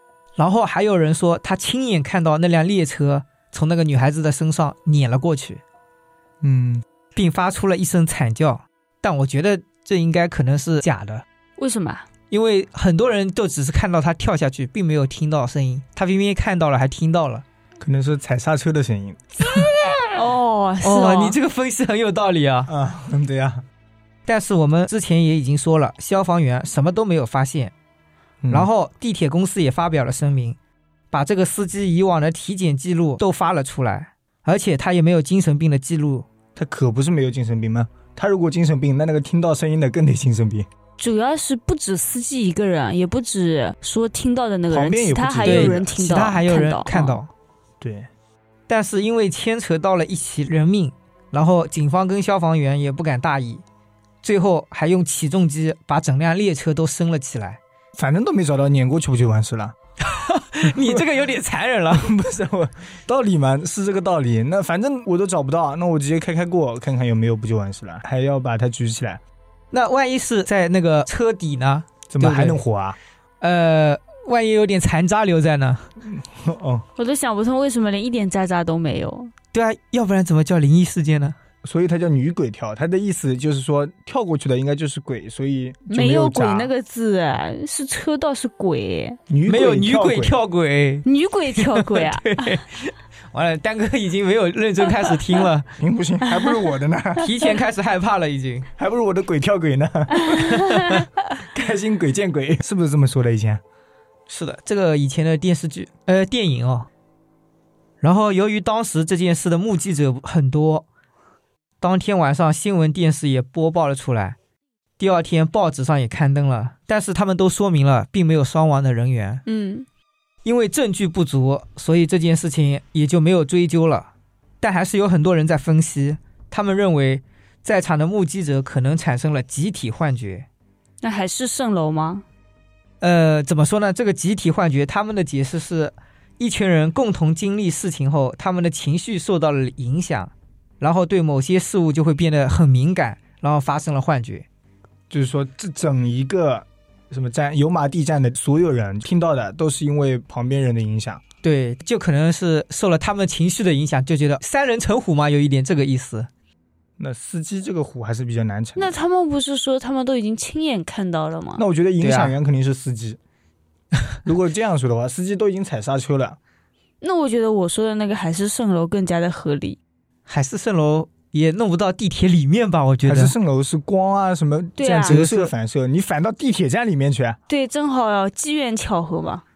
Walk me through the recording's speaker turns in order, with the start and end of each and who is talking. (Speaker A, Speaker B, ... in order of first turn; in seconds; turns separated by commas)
Speaker A: 0.4-5.6, Speaker B: 6.4-6.8, Speaker A: 7.1-11.2, Speaker C: 11.6-12.1, Speaker A: 12.3-17.4, Speaker B: 17.8-19.2, Speaker A: 19.4-20.1, Speaker C: 20.1-21.4, Speaker A: 20.8-22.7, Speaker B: 22.7-23.6, Speaker A: 24.3-27.7, Speaker B: 28.4-28.7, Speaker A: 28.5-30.6, Speaker A: 31.1-36.2, Speaker B: 36.5-40.7, Speaker C: 41.0-47.2, Speaker B: 44.7-45.9, Speaker A: 45.4-47.3, Speaker B: 47.8-48.1, Speaker A: 48.7-53.6, Speaker A: 54.2-57.6, Speaker B: 57.9-59.7, Speaker A: 60.0-62.1, Speaker B: 60.7-61.0, Speaker B: 61.9-69.2, Speaker A: 69.7-72.6, Speaker B: 72.1-73.0, Speaker A: 73.4-75.9, Speaker B: 76.0-76.8, Speaker C: 77.0-79.3, Speaker A: 79.5-81.3, Speaker B: 81.6-86.7, Speaker C: 85.9-89.2, Speaker B: 89.3-90.3, Speaker A: 89.5-95.7, Speaker C: 91.0-92.5, Speaker B: 95.8-97.3, Speaker C: 96.3-96.6, Speaker A: 97.2-98.7, Speaker B: 98.8-103.6, Speaker C: 100.2-101.0, Speaker A: 104.3-106.9, Speaker A: 108.0-110.8, Speaker A: 111.8-114.4, Speaker A: 115.0-119.4, Speaker C: 119.5-119.8, Speaker A: 120.4-124.1, Speaker A: 124.6-130.5, Speaker C: 131.0-132.2, Speaker A: 133.0-144.4, Speaker B: 145.1-151.2, Speaker A: 151.4-156.3, Speaker B: 157.0-159.0, Speaker C: 158.8-161.6, Speaker B: 161.6-163.2, Speaker A: 162.0-162.3, Speaker B: 164.2-166.4, Speaker C: 167.0-169.8, Speaker A: 170.3-173.3, Speaker B: 173.0-177.4, Speaker C: 174.8-175.2, Speaker A: 175.1-175.5, Speaker C: 177.5-179.4